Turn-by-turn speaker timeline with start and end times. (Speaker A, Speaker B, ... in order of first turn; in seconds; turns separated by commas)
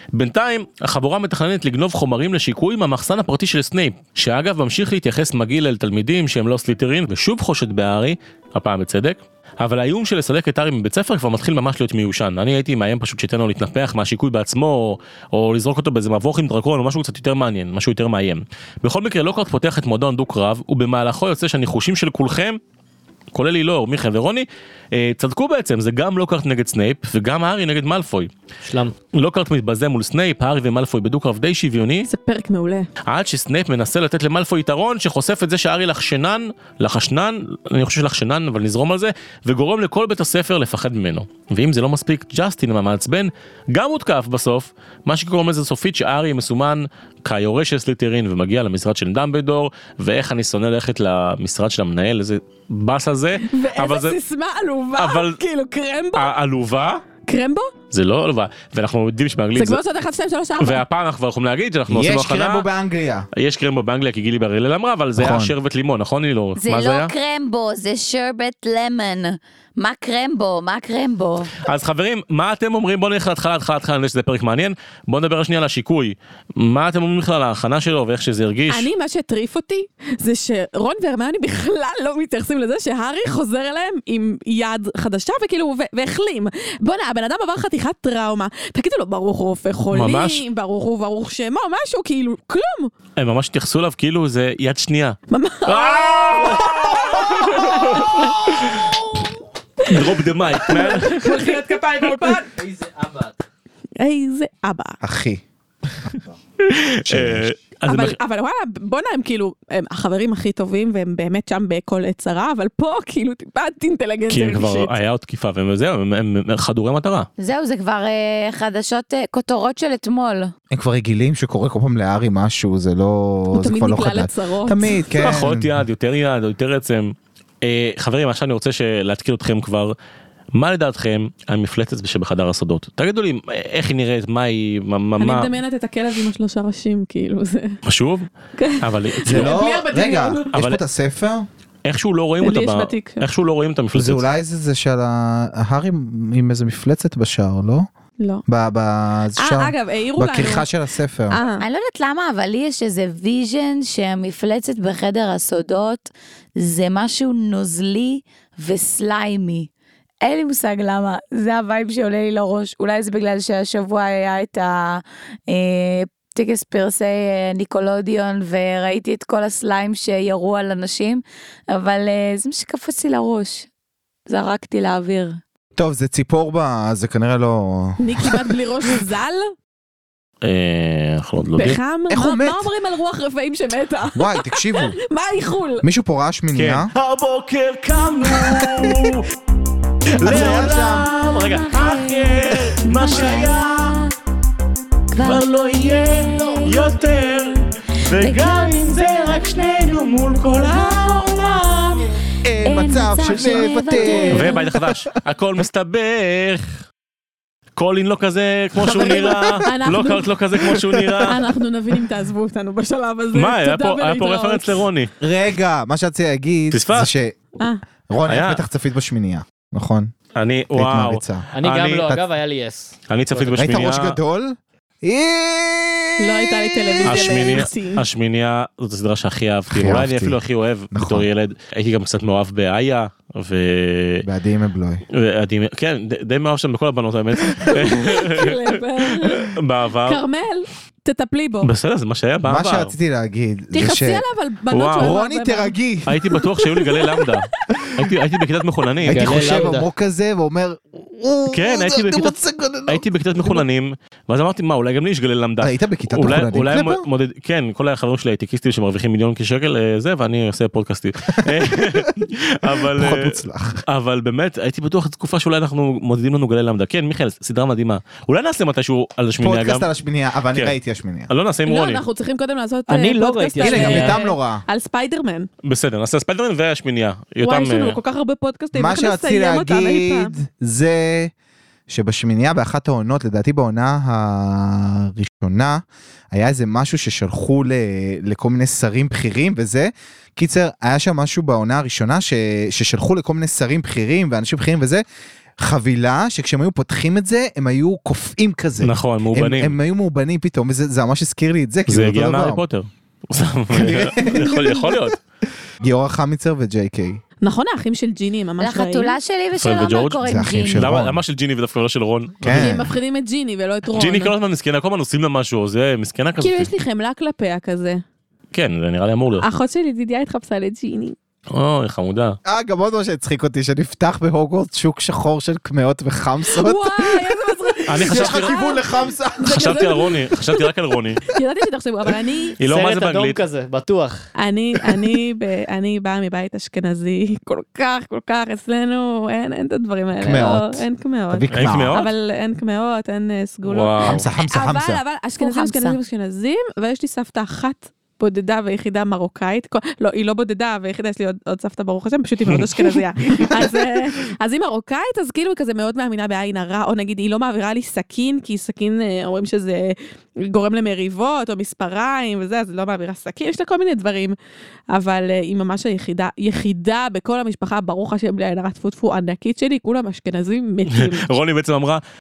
Speaker A: 0.1-22.6, Speaker A: 23.3-28.3, Speaker B: 28.6-28.9, Speaker A: 29.1-32.1, Speaker C: 32.1-32.9, Speaker A: 33.1-54.2, Speaker C: 53.4-56.3, Speaker A: 55.0-55.4, Speaker A: 56.1-57.0, Speaker C: 57.2-57.7, Speaker A: 57.9-59.8, Speaker C: 59.5-60.8, Speaker A: 60.6-62.7, Speaker D: 61.9-63.3, Speaker A: 63.3-67.1, Speaker D: 65.2-65.5, Speaker E: 66.6-71.5, Speaker A: 71.6-78.9, Speaker C: 78.7-92.9, Speaker A: 89.9-90.4, Speaker A: 93.2-99.0, Speaker C: 95.3-98.5, Speaker C: 99.8-102.6, Speaker A: 99.8-101.5, Speaker B: 102.6-103.3, Speaker C: 104.0-105.0, Speaker D: 105.0-105.4, Speaker A: 106.6-108.2, Speaker D: 107.0-107.5, Speaker C: 107.9-114.9, Speaker A: 114.3-117.3, Speaker E: 117.4-120.5, Speaker D: 120.7-125.8, Speaker C: 123.5-125.0, Speaker A: 125.2-129.9, Speaker A: 130.5-135.5, Speaker C: 135.2-137.8, Speaker A: 137.8-138.3, Speaker C: 138.6-140.5, Speaker A: 138.8-139.5, Speaker D: 139.2-141.5, Speaker A: 140.5-140.8, Speaker A: 141.8-144.2, Speaker C: 142.4-143.2, Speaker D: 143.9-147.9, Speaker D: 148.5-151.4, Speaker C: 149.4-150.7, Speaker C: 151.3-151.6, Speaker E: 151.6-159.7, Speaker E: 160.2-173.7, Speaker E: 174.3-175.4, Speaker D: 175.8-179.0, Speaker C: 178.0-179.5, Speaker A: 180.4-181.8, Speaker C: 181.6-185.8, Speaker D: 182.1-182.7, Speaker D: 184.1-185.0, Speaker D: 185.8-186.9, Speaker A: 186.5-189.3, Speaker D: 188.2-189.1, Speaker A: 190.1-194.0, Speaker D: 190.1-191.1, Speaker E: 191.2-194.1, Speaker E: 195.1-196.8, Speaker A: 195.2-202.0, Speaker E: 198.1-198.9, Speaker D: 202.4-205.0, Speaker E: 202.6-204.7, Speaker A: 204.3-206.8, Speaker A: 207.8-211.4, Speaker D: 208.9-209.5, Speaker C: 209.1-210.3, Speaker D: 210.9-211.3, Speaker C: 211.2-214.8, Speaker A: 213.3-215.1, Speaker D: 215.2-217.4, Speaker A: 216.7-217.1, Speaker D: 218.1-220.1, Speaker A: 218.2-218.6, Speaker A: 220.3-222.2, Speaker D: 220.7-221.5, Speaker B: 221.5-223.6, Speaker A: 223.1-224.2, Speaker D: 223.6-227.6, Speaker C: 226.2-228.0, Speaker A: 227.0-234.2, Speaker D: 229.7-230.4, Speaker D: 230.9-231.2, Speaker D: 234.2-235.0, Speaker A: 235.1-240.2, Speaker C: 237.6-241.7, Speaker A: 241.6-242.9, Speaker D: 242.4-244.2, Speaker C: 243.7-245.7, Speaker A: 244.7-245.1, Speaker D: 245.0-246.2, Speaker A: 246.1-249.7, Speaker C: 246.6-247.8, Speaker D: 249.0-253.6, Speaker B: 249.1-249.9, Speaker A: 251.5-252.3, Speaker A: 252.9-269.9, Speaker D: 255.6-257.0, Speaker D: 261.3-263.8, Speaker D: 269.4-271.3, Speaker A: 271.3-272.0, Speaker C: 271.6-275.5, Speaker B: 272.9-274.2, Speaker D: 273.6-274.6, Speaker A: 275.6-278.0, Speaker C: 277.4-280.3, Speaker D: 278.7-281.3, Speaker D: 281.9-285.8, Speaker D: 286.3-295.0, Speaker D: 295.6-302.6, Speaker A: 298.8-299.8, Speaker A: 301.9-305.2, Speaker D: 303.7-305.1, Speaker D: 305.8-307.2, Speaker C: 307.4-309.2, Speaker E: 308.6-310.9, Speaker A: 309.6-312.7, Speaker D: 310.2-311.2, Speaker D: 312.4-313.0, Speaker C: 312.5-314.3, Speaker A: 313.9-316.7, Speaker C: 316.4-318.0, Speaker A: 318.5-319.5, Speaker C: 319.4-321.1, Speaker A: 321.5-322.4, Speaker D: 322.4-327.3, Speaker C: 326.5-330.6, Speaker A: 327.9-328.6, Speaker D: 328.0-330.1, Speaker A: 329.4-331.2, Speaker C: 331.3-332.6, Speaker A: 332.6-333.4, Speaker B: 332.6-334.3, Speaker C: 334.4-364.4, Speaker D: 340.2-342.0, Speaker A: 341.5-342.1, Speaker A: 343.7-344.2, Speaker D: 344.0-345.0, Speaker E: 345.4-346.0, Speaker C: 364.9-371.3, Speaker A: 370.9-372.0